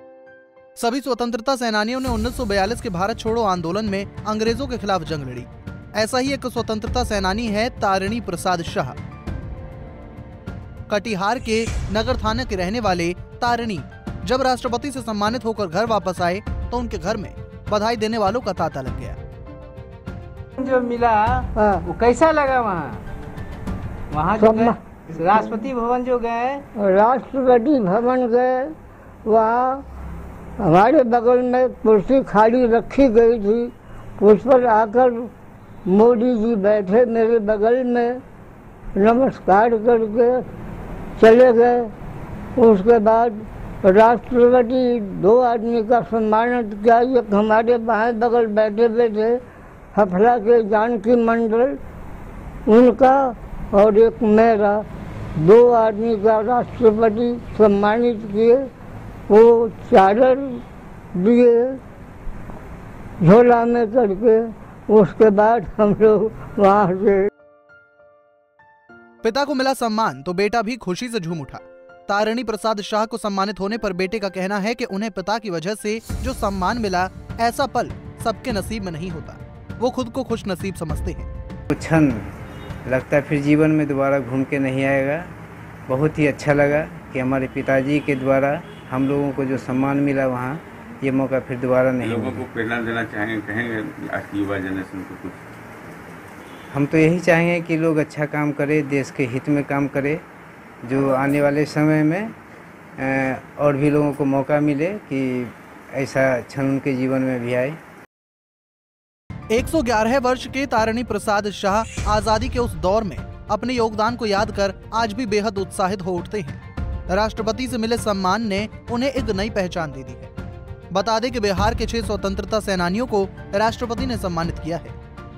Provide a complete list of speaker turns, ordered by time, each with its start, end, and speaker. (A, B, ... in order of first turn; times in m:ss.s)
0:00.8-0:09.0 A
0:10.9-0:19.2 A
0:20.6-0:23.0 B
0:21.6-0:21.8 C
0:24.1-0:26.6 B
0:24.4-0:24.8 C
0:26.8-0:28.7 C
0:29.2-0:29.8 C
0:30.6-0:35.3 C
0:35.9-0:38.2 C
0:39.0-0:40.4 C
0:41.2-0:41.9 C
0:42.6-0:49.4 C
0:49.9-0:51.8 C
0:52.7-0:54.8 C
0:55.4-0:58.6 C
0:59.3-1:00.6 C
1:01.1-1:01.8 C
1:03.2-1:07.3 C
1:09.2-1:21.3 A
1:21.7-1:22.3 D
1:22.9-1:25.3 D
1:25.9-1:32.4 D
1:32.0-1:35.4 E
1:36.7-1:40.2 D
1:40.8-1:42.3 D
1:43.0-1:47.8 D
1:49.5-2:00.3 A
2:00.9-2:05.0 A